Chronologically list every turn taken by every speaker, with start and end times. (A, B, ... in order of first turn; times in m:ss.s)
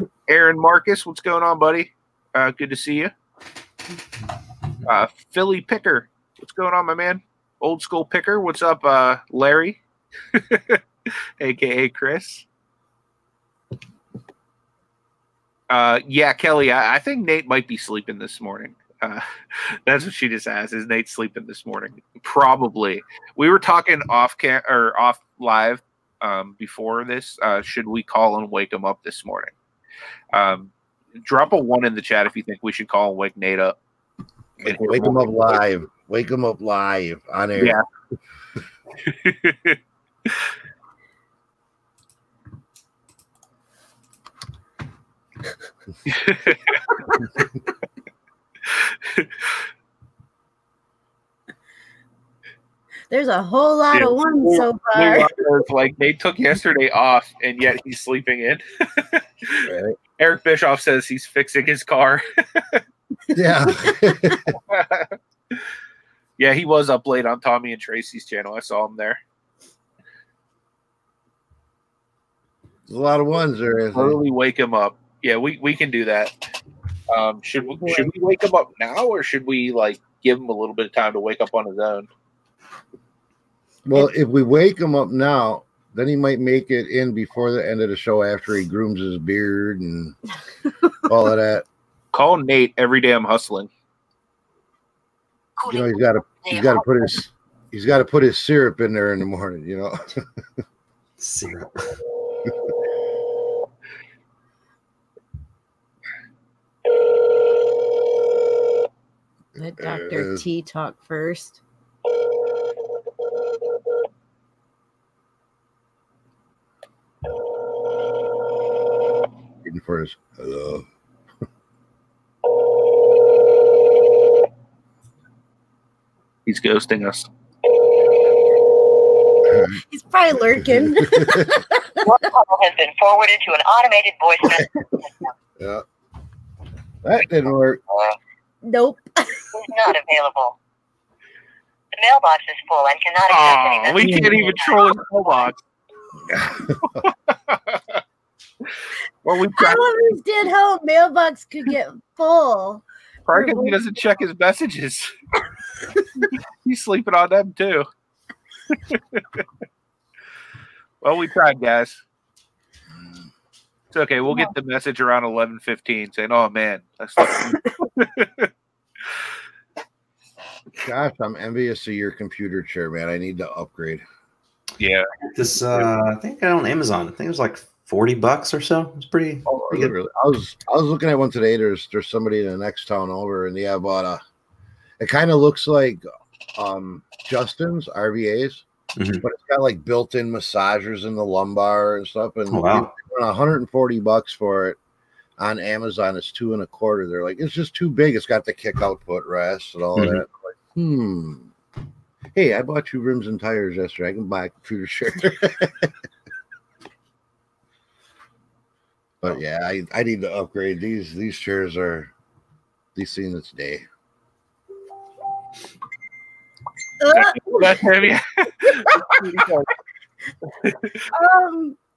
0:00.3-0:03.1 A
0:04.8-0:09.8 A
0:10.3-0:10.8 A
0:11.4-0:12.5 A
0:15.7-0:29.5 A
0:30.3-0:33.8 A
0:34.6-0:37.8 B
0:34.6-0:35.6 A
0:37.6-0:37.8 A
0:39.1-0:40.5 A
0:46.1-0:46.8 A
0:48.7-0:49.3 A
0:53.1-0:55.3 C
0:53.9-0:59.7 A
0:59.6-1:00.0 B
1:00.2-1:02.8 A
1:03.3-1:04.4 B
1:04.7-1:05.6 A
1:06.4-1:09.2 A
1:12.9-1:14.2 B
1:13.9-1:16.4 A
1:17.1-1:22.1 A
1:23.8-1:30.2 B
1:31.1-1:31.6 B
1:32.1-1:33.7 A
1:35.6-1:36.8 D
1:35.7-1:40.2 B
1:41.2-1:41.9 E
1:49.6-1:51.6 C
1:49.8-1:50.4 B
1:59.6-2:00.9 B
2:06.5-2:07.3 A
2:09.5-2:09.8 B
2:09.9-2:12.1 C
2:11.1-2:11.4 B
2:12.0-2:15.3 D
2:15.6-2:15.8 B
2:17.0-2:17.8 B
2:17.9-2:18.2 D
2:18.6-2:19.5 C
2:19.6-2:20.6 D
2:21.9-2:24.9 D
2:23.3-2:25.6 A
2:26.3-2:26.8 B
2:26.8-2:28.0 A
2:29.2-2:30.0 A
2:29.6-2:32.8 C
2:33.3-2:35.1 A
2:33.3-2:33.8 C
2:36.6-2:37.9 A
2:38.7-2:39.4 A
2:41.0-2:42.0 A
2:43.9-2:48.5 A
2:50.8-2:54.0 B
2:54.8-2:55.1 A
2:55.3-2:59.5 E
2:59.5-2:59.9 A
2:59.7-3:04.2 B
3:05.0-3:06.0 B
3:06.6-3:08.6 B
3:09.0-3:09.2 E
3:09.2-3:14.8 B
3:12.5-3:12.9 E
3:15.4-3:21.5 B
3:20.0-3:20.2 E
3:22.4-3:25.9 B
3:29.2-3:32.1 B
3:33.0-3:33.8 B
3:37.0-3:37.6 C
3:37.1-3:39.7 A
3:40.6-3:40.9 A
3:41.1-3:41.8 C